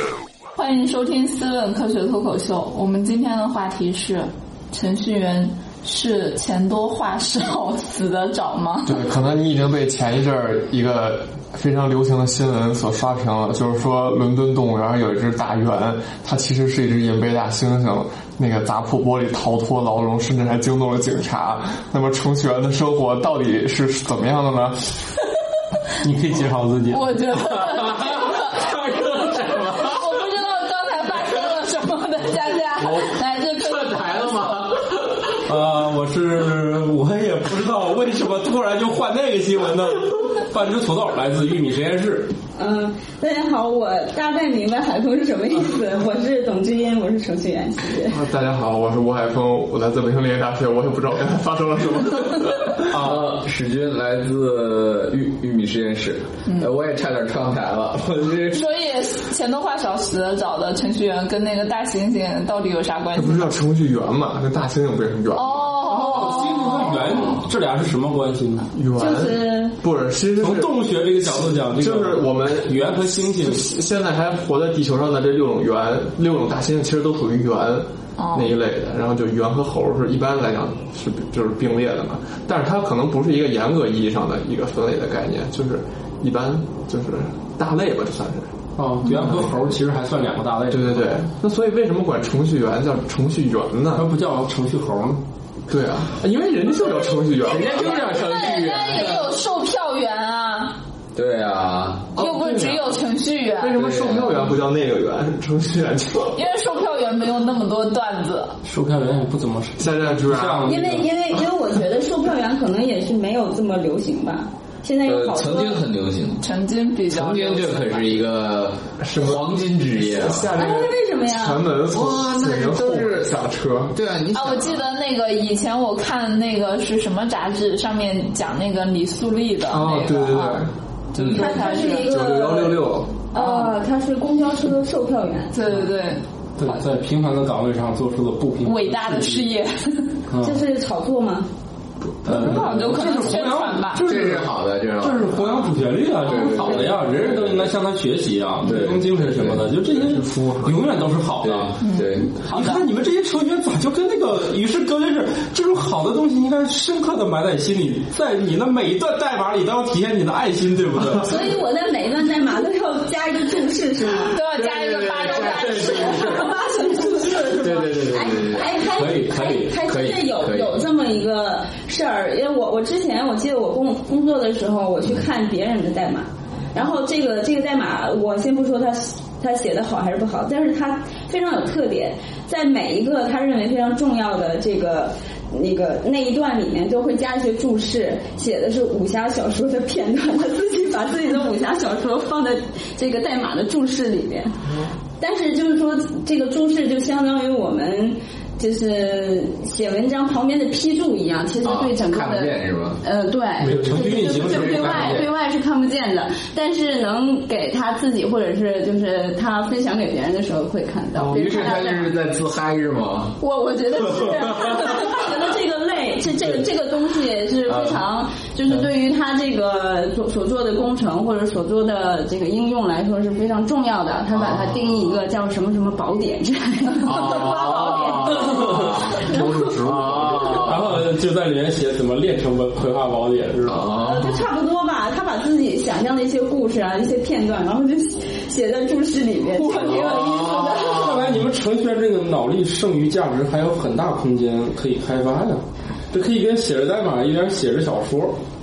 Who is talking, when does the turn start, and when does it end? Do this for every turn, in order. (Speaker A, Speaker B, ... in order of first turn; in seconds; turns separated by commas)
Speaker A: 0.6-9.0, Speaker B: 8.9-25.0, Speaker C: 26.0-27.2, Speaker A: 26.9-34.7, Speaker D: 27.6-30.1, Speaker C: 32.8-33.1, Speaker D: 33.6-35.4, Speaker C: 35.5-42.3, Speaker E: 42.6-48.2, Speaker B: 48.1-53.0, Speaker D: 52.9-58.7, Speaker C: 52.9-53.2, Speaker A: 58.5-63.5, Speaker B: 63.1-65.9, Speaker A: 65.3-67.0, Speaker C: 65.8-68.7, Speaker B: 68.7-89.8, Speaker E: 69.0-69.8, Speaker C: 70.4-73.7, Speaker A: 78.2-78.5, Speaker C: 88.8-91.2, Speaker B: 90.7-94.1, Speaker C: 93.9-95.2, Speaker B: 95.7-98.1, Speaker D: 97.4-99.4, Speaker A: 97.6-100.8, Speaker D: 101.2-102.1, Speaker B: 102.2-103.0, Speaker A: 102.2-103.8, Speaker B: 103.6-106.5, Speaker D: 103.8-104.6, Speaker A: 106.3-108.6, Speaker C: 108.6-111.1, Speaker B: 109.8-110.7, Speaker E: 110.6-115.8, Speaker D: 115.0-116.5, Speaker A: 116.4-118.2, Speaker D: 117.1-120.8, Speaker B: 119.0-124.0, Speaker E: 120.5-121.7, Speaker D: 121.9-123.3, Speaker D: 123.9-124.9, Speaker A: 124.3-132.1, Speaker B: 129.7-130.7, Speaker D: 131.2-131.4, Speaker E: 131.3-135.5, Speaker B: 131.5-133.1, Speaker A: 133.3-133.7, Speaker A: 135.5-136.2, Speaker C: 136.6-139.5, Speaker A: 138.6-140.2, Speaker C: 140.3-140.6, Speaker E: 140.4-141.5, Speaker B: 142.1-143.0, Speaker C: 142.2-161.5, Speaker A: 142.3-144.0, Speaker D: 144.0-147.7, Speaker E: 146.3-146.9, Speaker D: 148.6-149.7, Speaker B: 149.8-150.8, Speaker D: 151.4-152.3, Speaker A: 151.8-152.8, Speaker E: 161.2-164.4, Speaker A: 164.3-167.5, Speaker D: 164.4-166.6, Speaker E: 166.0-194.6, Speaker D: 167.6-168.8, Speaker C: 168.8-169.8, Speaker D: 169.8-170.8, Speaker E: 195.2-212.1, Speaker D: 201.6-203.0, Speaker B: 203.6-204.7, Speaker C: 203.6-205.3, Speaker B: 211.2-211.5, Speaker D: 211.3-213.4, Speaker A: 213.4-215.3, Speaker D: 214.4-215.1, Speaker E: 214.5-229.4, Speaker D: 217.7-218.0, Speaker D: 224.3-225.0, Speaker D: 227.0-231.0, Speaker B: 228.7-230.9, Speaker C: 230.7-234.0, Speaker D: 233.7-234.4, Speaker E: 233.9-241.1, Speaker C: 239.5-248.4, Speaker D: 240.0-241.1